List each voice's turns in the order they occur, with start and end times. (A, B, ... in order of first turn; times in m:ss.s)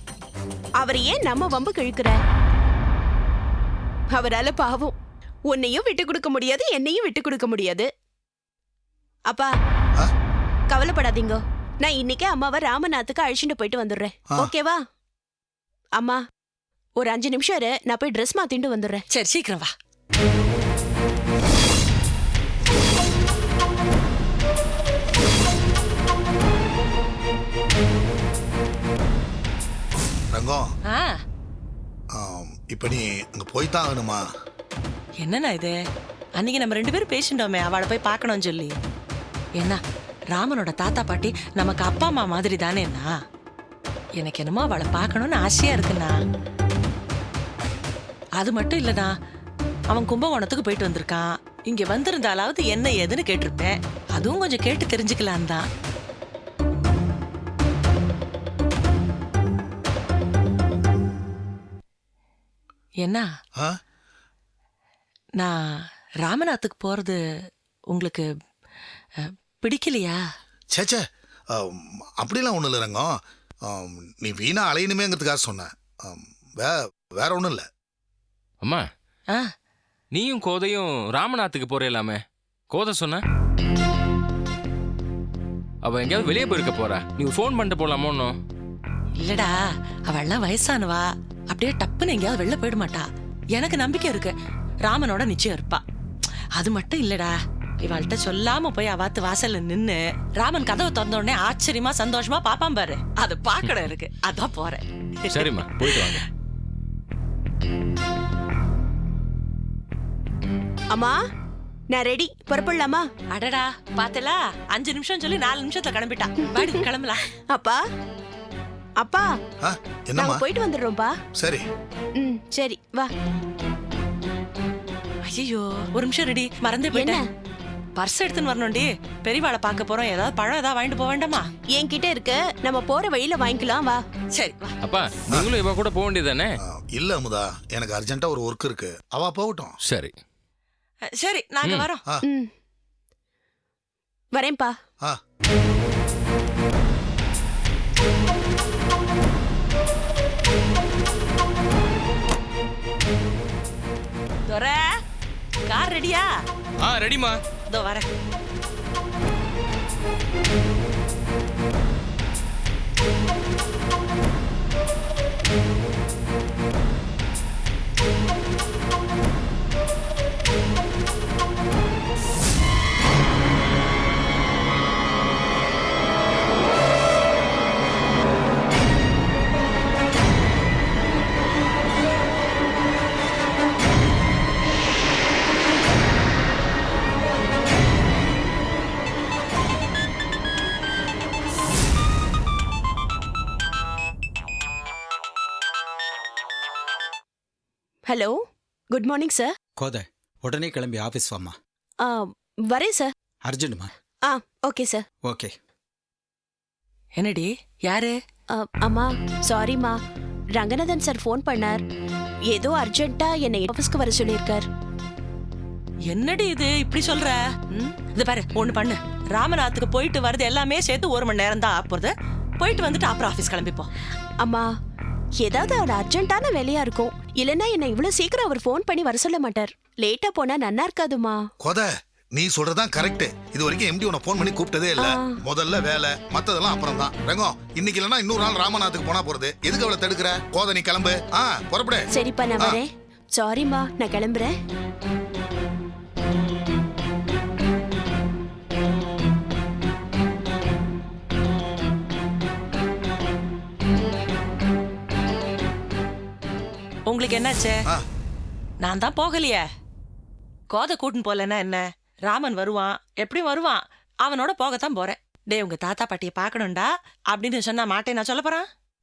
0:00.8-0:02.2 A
0:04.1-0:05.0 A
0:05.5-0:07.9 A
0:10.7-0:14.8 A
0:16.0-0:16.2 A
0:17.0-0:19.0 A
0:19.1-0:19.7 B
0:30.3-0:30.6 C
0:30.9-0:31.2 B
0:32.1-0:34.2 C
0:35.2-0:35.8 B
0:36.4-0:38.8 B
0:40.3-0:43.1 B
0:44.2-0:46.2 B
0:48.4-0:49.1 B
0:49.9-0:55.6 B
1:05.4-1:07.2 B
1:07.9-1:08.3 B
1:09.2-1:10.2 B
1:10.7-1:11.0 C
1:11.5-1:13.1 C
1:13.7-1:17.6 C
1:20.1-1:23.2 D
1:25.8-1:28.4 D
1:29.2-1:34.3 B
1:34.8-1:35.8 B
1:36.5-1:46.2 B
1:45.3-1:46.2 D
1:50.9-1:51.2 A
1:51.9-1:53.1 A
1:53.3-1:57.3 B
1:57.5-1:57.8 A
1:59.0-1:59.3 A
1:59.6-2:00.4 C
2:00.1-2:01.1 A
2:01.4-2:01.6 C
2:02.2-2:03.1 A
2:05.2-2:07.2 B
2:06.9-2:07.2 A
2:08.0-2:11.5 B
2:11.7-2:14.0 A
2:14.3-2:14.8 B
2:14.8-2:16.5 D
2:16.6-2:19.7 C
2:19.8-2:20.2 D
2:21.1-2:22.0 B
2:22.2-2:22.5 A
2:24.3-2:24.7 A
2:34.4-2:35.0 B
2:35.6-2:36.3 B
2:36.8-2:37.4 D
2:37.6-2:38.0 B
3:18.0-3:19.5 A
3:19.8-3:21.6 E
3:22.0-3:23.1 A
3:23.4-3:23.9 E
3:24.2-3:25.0 A
3:25.2-3:25.5 E
3:27.2-3:28.2 B
3:28.5-3:30.0 A
3:30.5-3:31.8 A
3:32.5-3:34.7 A
3:36.1-3:43.9 B
3:44.4-3:44.7 A
3:45.4-3:51.5 A
3:51.6-4:02.1 C
3:55.0-3:55.4 A
4:02.1-4:04.5 A
4:17.1-4:17.8 B
4:18.8-4:19.6 B
4:20.7-4:28.6 B